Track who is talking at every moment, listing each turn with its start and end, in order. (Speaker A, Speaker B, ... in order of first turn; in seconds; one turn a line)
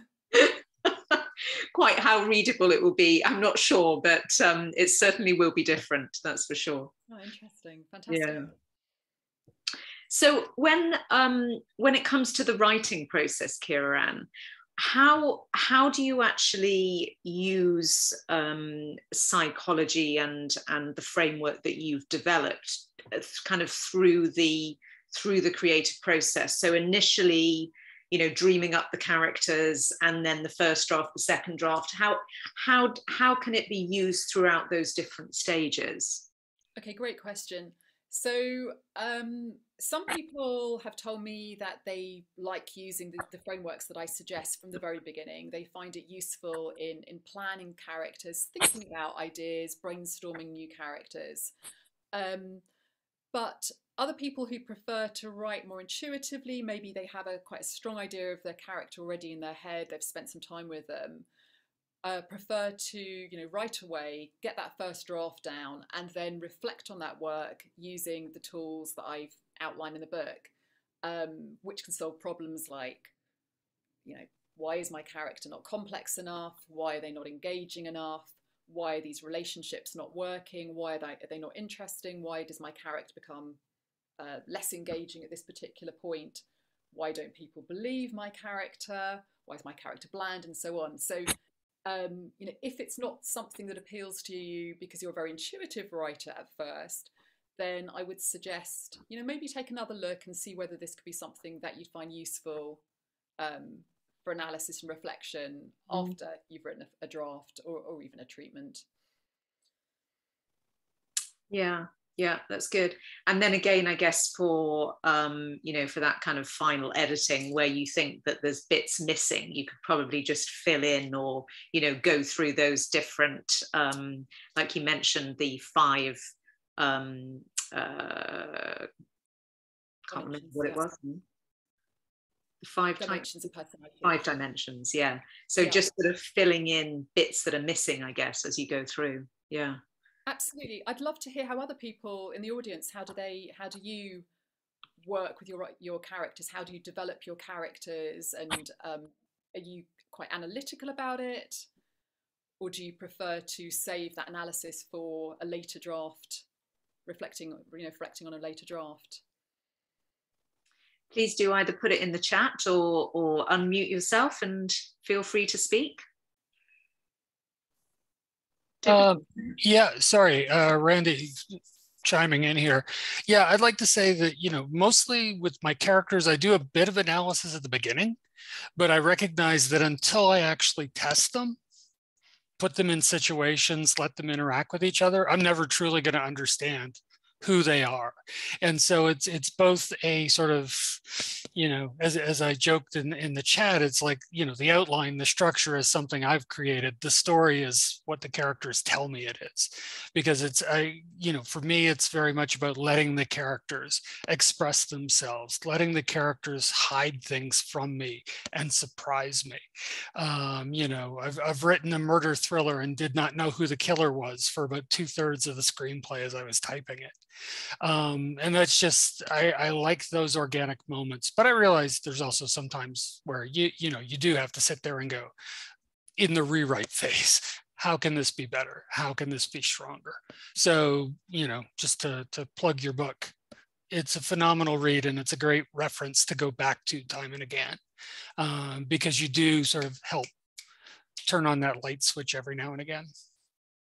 Speaker A: 0.3-6.9
Speaker B: 7.1-8.5
Speaker A: 8.1-8.4
Speaker A: 10.1-36.3
Speaker B: 36.8-51.5
Speaker B: 52.1-52.6
Speaker B: 53.3-61.2
Speaker B: 62.0-70.5
Speaker B: 71.0-73.1
Speaker B: 74.0-83.6
Speaker B: 84.2-91.3
Speaker B: 91.8-102.8
Speaker B: 103.4-108.8
Speaker A: 111.5-126.2
Speaker A: 126.8-128.9
Speaker A: 130.1-131.2
Speaker B: 130.1-130.9
Speaker A: 132.6-133.2
Speaker B: 133.0-134.2
Speaker A: 134.0-139.8
Speaker B: 135.6-135.9
Speaker B: 140.3-144.3
Speaker B: 145.0-151.7
Speaker B: 152.6-156.4
Speaker B: 157.1-159.2
Speaker A: 161.1-166.0
Speaker C: 168.8-178.2
Speaker C: 178.8-181.6
Speaker C: 182.6-209.6
Speaker C: 210.1-217.1
Speaker C: 217.8-225.3
Speaker C: 226.2-233.3
Speaker C: 233.9-237.8
Speaker C: 238.4-240.3
Speaker C: 241.3-243.1